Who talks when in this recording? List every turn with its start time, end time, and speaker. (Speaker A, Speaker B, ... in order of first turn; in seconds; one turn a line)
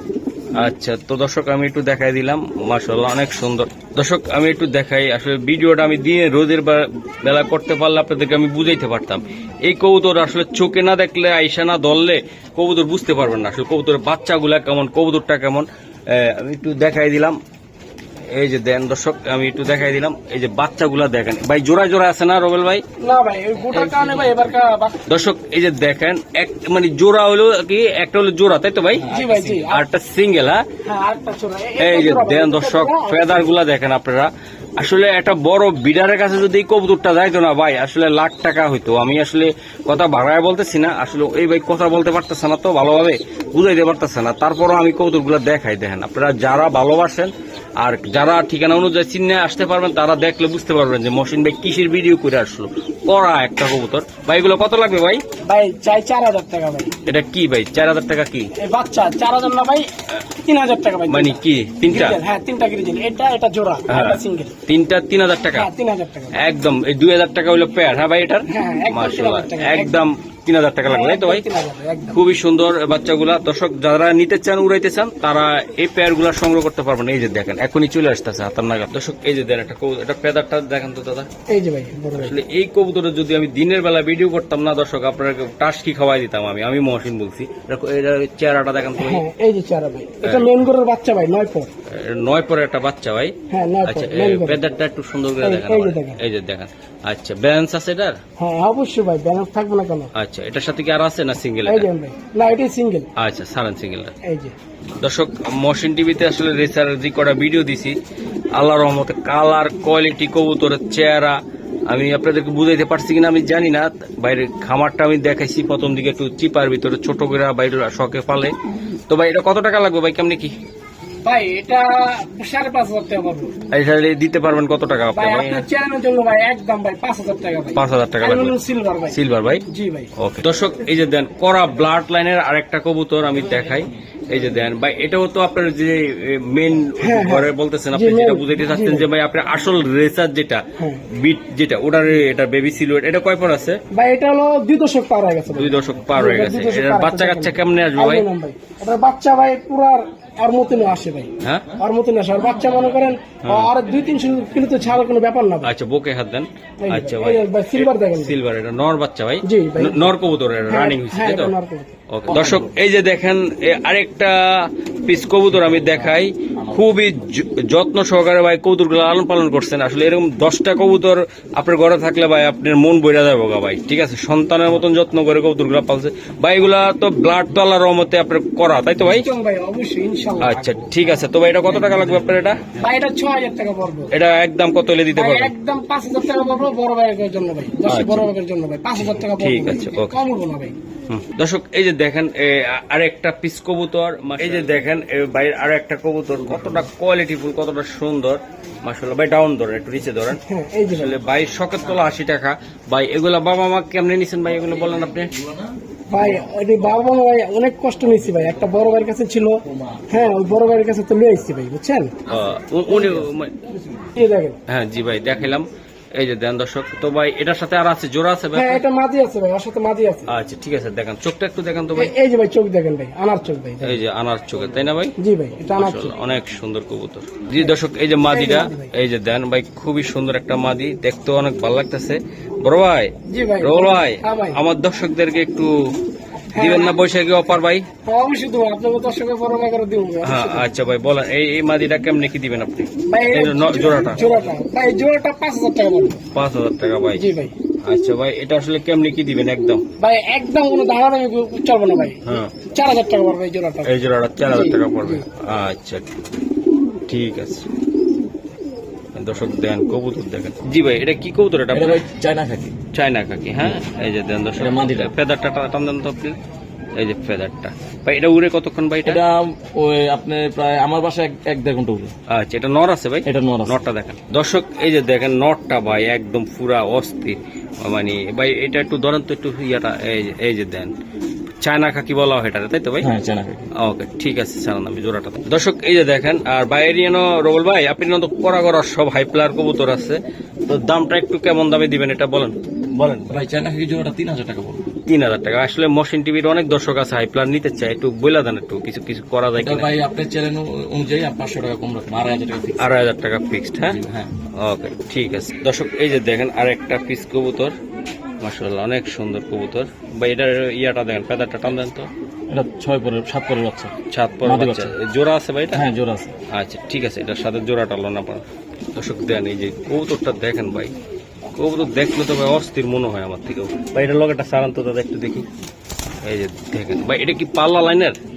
Speaker A: 0.6-17.4
Speaker A: 18.3-22.8
Speaker B: 23.0-25.0
Speaker C: 23.7-24.5
Speaker A: 25.1-29.1
Speaker C: 28.9-29.7
Speaker B: 29.1-29.9
Speaker A: 29.7-30.6
Speaker B: 30.9-33.5
Speaker A: 31.8-55.2
Speaker B: 55.5-56.9
Speaker A: 57.1-58.5
Speaker B: 58.6-59.9
Speaker B: 60.5-64.5
Speaker A: 61.1-62.2
Speaker A: 63.9-65.7
Speaker B: 65.5-66.4
Speaker A: 66.3-71.4
Speaker B: 68.5-70.0
Speaker B: 70.9-72.2
Speaker A: 72.1-81.3
Speaker B: 81.5-82.3
Speaker A: 82.2-89.2
Speaker B: 89.0-91.7
Speaker A: 90.2-90.5
Speaker A: 91.9-98.2
Speaker B: 93.5-94.6
Speaker B: 95.4-96.2
Speaker B: 98.4-100.1
Speaker A: 100.2-101.9
Speaker B: 101.7-103.1
Speaker A: 103.2-104.1
Speaker B: 104.2-104.5
Speaker A: 105.0-108.0
Speaker A: 108.6-111.4
Speaker A: 111.9-118.5
Speaker A: 119.1-120.6
Speaker B: 121.2-123.5
Speaker A: 123.7-125.7
Speaker B: 125.2-130.1
Speaker A: 127.8-128.6
Speaker A: 129.1-129.6
Speaker A: 130.2-143.8
Speaker B: 137.0-139.1
Speaker B: 140.8-141.0
Speaker B: 143.9-155.7
Speaker A: 145.5-148.3
Speaker A: 151.4-151.7
Speaker A: 153.4-153.7
Speaker A: 155.6-161.6
Speaker B: 156.8-158.4
Speaker B: 159.4-160.1
Speaker B: 160.7-162.0
Speaker A: 162.1-179.3
Speaker C: 162.3-162.8
Speaker C: 165.5-167.0
Speaker B: 179.0-180.6
Speaker A: 180.4-182.6
Speaker C: 180.8-181.1
Speaker C: 181.7-182.9
Speaker B: 182.8-184.1
Speaker A: 184.1-185.5
Speaker B: 185.2-190.8
Speaker A: 187.9-188.3
Speaker A: 189.0-190.2
Speaker A: 191.1-205.3
Speaker B: 200.4-201.2
Speaker C: 204.5-206.5
Speaker B: 206.1-212.2
Speaker C: 208.1-208.9
Speaker C: 209.6-210.5
Speaker A: 212.3-213.5
Speaker C: 212.9-214.1
Speaker B: 214.2-214.6
Speaker A: 214.7-218.8
Speaker B: 218.6-220.3
Speaker A: 220.3-222.1
Speaker B: 222.0-224.0
Speaker A: 223.8-225.2
Speaker B: 225.2-226.2
Speaker A: 225.7-235.7
Speaker B: 228.3-228.9
Speaker B: 233.3-234.6
Speaker B: 236.6-236.9
Speaker A: 236.6-237.9
Speaker B: 238.1-240.7
Speaker A: 240.2-244.5
Speaker B: 243.1-246.2
Speaker A: 246.3-247.3
Speaker B: 247.2-247.5
Speaker A: 247.9-249.8
Speaker B: 250.0-255.2
Speaker A: 252.2-252.5
Speaker A: 253.8-256.1
Speaker A: 257.1-257.7
Speaker A: 259.1-262.0
Speaker C: 261.7-262.8
Speaker A: 262.9-266.4
Speaker C: 264.6-265.1
Speaker A: 267.0-269.2
Speaker C: 269.1-272.1
Speaker A: 272.3-280.9
Speaker C: 273.2-273.8
Speaker A: 281.6-283.1
Speaker C: 283.0-283.7
Speaker A: 283.8-293.4
Speaker C: 293.3-294.9
Speaker A: 295.1-299.9
Speaker C: 299.6-302.9
Speaker A: 302.8-304.0
Speaker C: 303.9-304.3
Speaker A: 304.6-307.8
Speaker A: 308.4-312.1
Speaker C: 312.5-314.9
Speaker A: 314.1-315.9
Speaker C: 315.7-316.4
Speaker A: 316.5-320.9
Speaker A: 321.6-325.5
Speaker A: 326.2-328.2